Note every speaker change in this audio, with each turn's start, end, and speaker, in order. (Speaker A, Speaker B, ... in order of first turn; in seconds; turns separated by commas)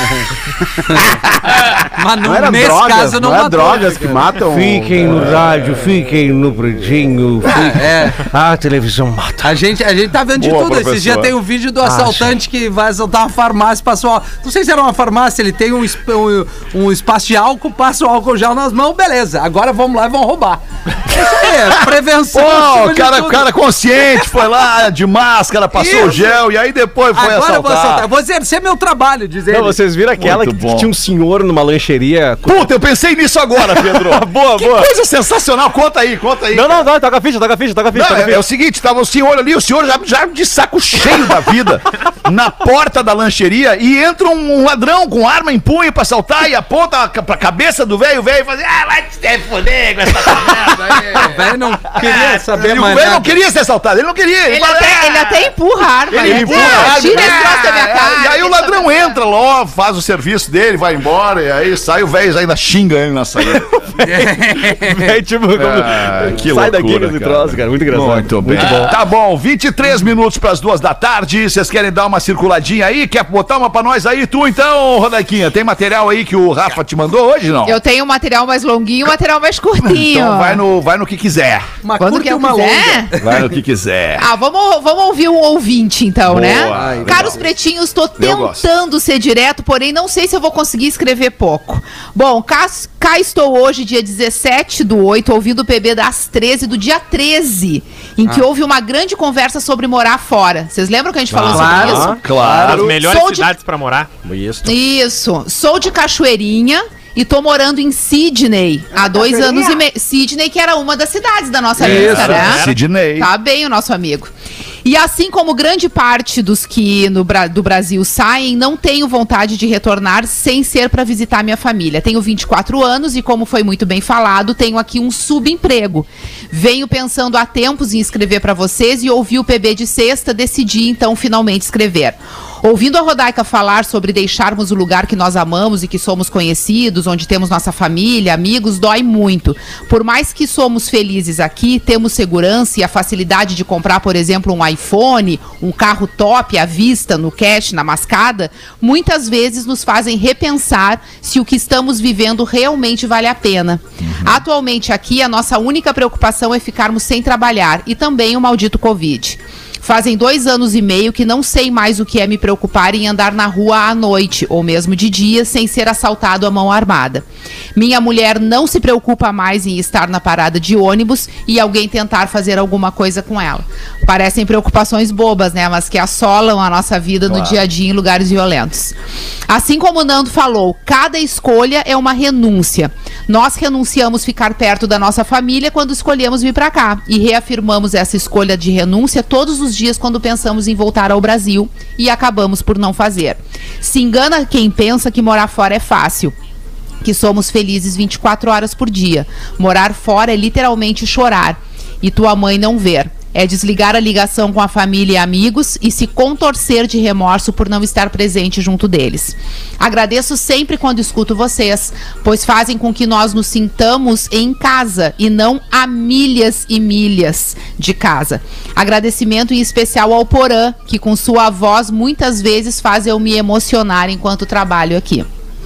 Speaker A: 1.9-4.2, Speaker B: 2.2-5.1, Speaker C: 4.6-7.6, Speaker A: 7.5-8.3, Speaker C: 8.2-9.5, Speaker A: 9.4-23.5, Speaker D: 10.3-11.3, Speaker C: 11.8-12.3, Speaker D: 21.6-28.1, Speaker A: 25.7-26.3, Speaker A: 27.1-29.8, Speaker C: 29.5-32.9, Speaker D: 30.2-30.9, Speaker D: 32.5-36.9, Speaker C: 33.5-34.9, Speaker C: 36.5-38.4, Speaker D: 37.9-55.5, Speaker A: 50.7-53.4, Speaker E: 54.5-59.1, Speaker D: 56.1-63.8, Speaker A: 64.0-65.0, Speaker C: 64.0-69.0, Speaker D: 65.6-77.8, Speaker E: 77.7-80.6, Speaker D: 79.8-81.7, Speaker A: 81.8-83.4, Speaker E: 82.0-83.1, Speaker D: 83.2-84.2, Speaker E: 84.2-103.5, Speaker D: 86.3-87.4, Speaker A: 86.7-87.5, Speaker D: 88.2-88.7, Speaker C: 101.3-102.2, Speaker D: 101.4-102.9, Speaker A: 101.5-102.8, Speaker F: 102.6-104.1, Speaker C: 104.2-104.7, Speaker E: 104.6-114.3, Speaker B: 109.0-109.8, Speaker A: 111.8-112.5, Speaker D: 111.8-113.3, Speaker F: 111.9-112.8, Speaker E: 114.8-178.9, Speaker D: 154.0-154.4, Speaker D: 177.3-177.6, Speaker E: 179.5-196.3, Speaker E: 197.0-225.3